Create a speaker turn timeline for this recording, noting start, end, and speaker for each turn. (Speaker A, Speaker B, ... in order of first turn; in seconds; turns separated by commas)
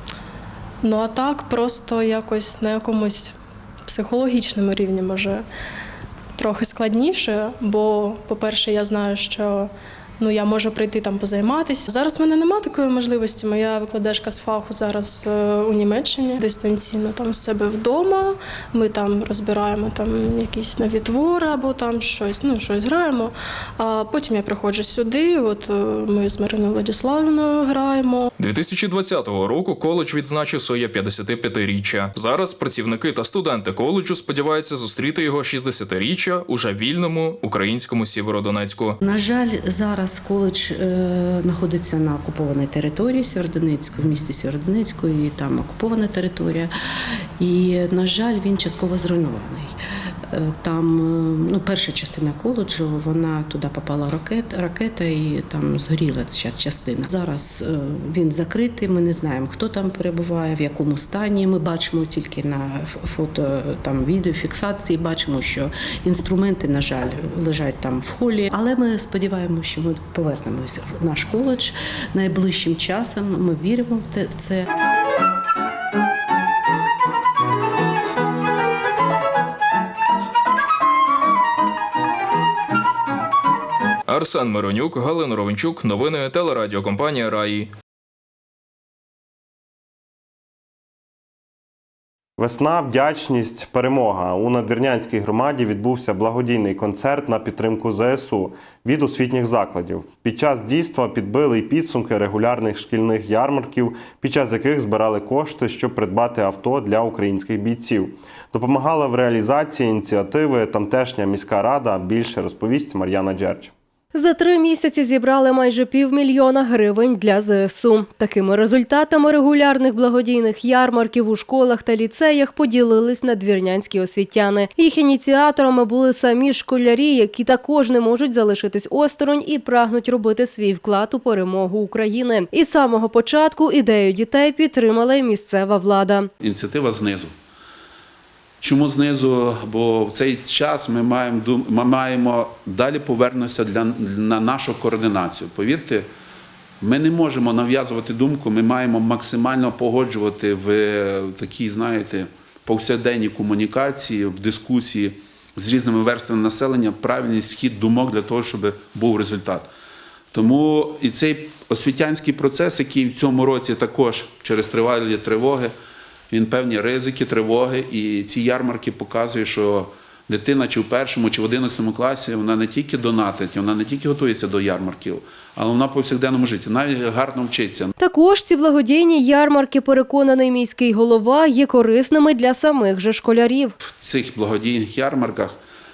Speaker A: 0.8-3.3, Speaker A: 3.9-5.4, Speaker A: 6.4-28.3, Speaker B: 28.4-39.0, Speaker C: 39.0-46.7, Speaker C: 47.4-49.8, Speaker C: 50.3-74.7, Speaker B: 84.1-87.7, Speaker D: 92.4-113.7, Speaker E: 114.1-136.3, Speaker F: 136.4-137.3, Speaker F: 138.6-146.1, Speaker F: 146.8-159.7, Speaker F: 160.3-165.7, Speaker F: 166.3-177.9, Speaker E: 178.0-183.7, Speaker F: 183.8-185.6